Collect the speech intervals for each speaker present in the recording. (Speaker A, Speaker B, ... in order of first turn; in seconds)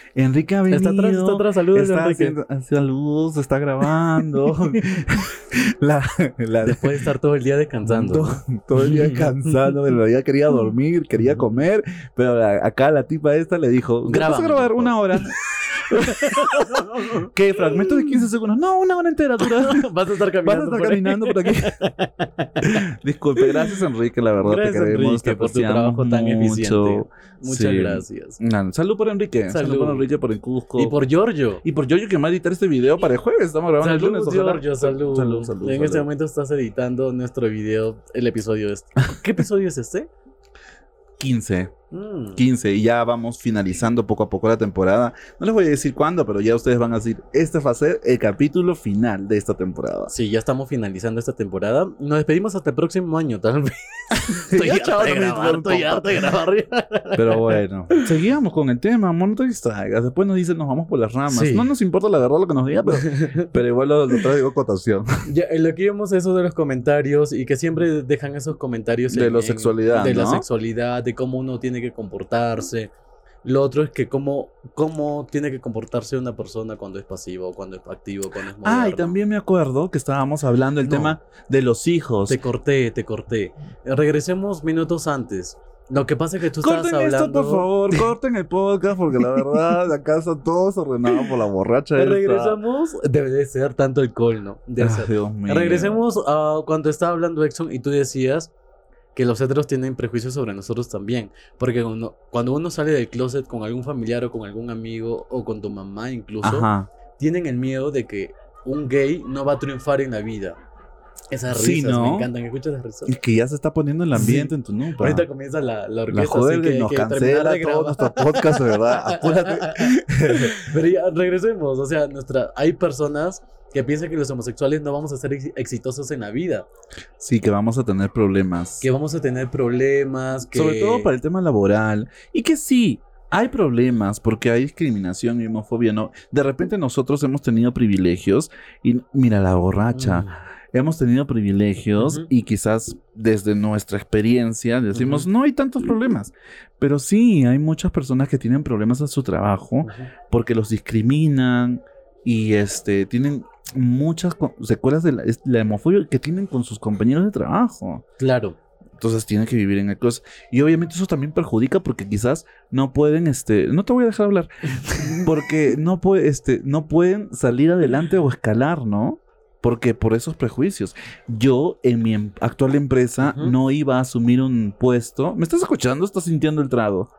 Speaker A: 0.1-7.1, 7.8-19.9, 20.4-21.8, 22.6-31.0, 31.6-36.1, 41.2-41.7, 42.4-50.1, 54.1-56.3, 57.1-65.2, 69.1-70.5, 78.6-82.4, 86.6-92.6, 94.8-96.0, 106.4-106.9, 111.5-112.3, 113.1-115.3, 116.1-120.7, 127.2-128.9, 130.5-158.0, 159.0-177.1
Speaker B: 0.7-2.4, 6.6-9.8, 14.1-15.3, 15.9-18.2, 19.4-22.9, 23.4-23.8, 24.4-28.4, 29.5-30.1, 30.8-31.6, 33.8-40.1, 41.9-42.4, 50.1-58.1, 61.3-61.7, 62.9-63.5, 65.2-72.9, 73.4-79.2, 80.8-81.2, 82.3-88.1, 92.0-98.5, 99.2-110.6, 111.3-113.2, 114.2-126.7, 128.8-131.1, 139.9-140.4, 142.0-142.3, 144.9-145.3, 149.8-150.1, 158.2-158.6, 164.8-165.2, 173.2-173.6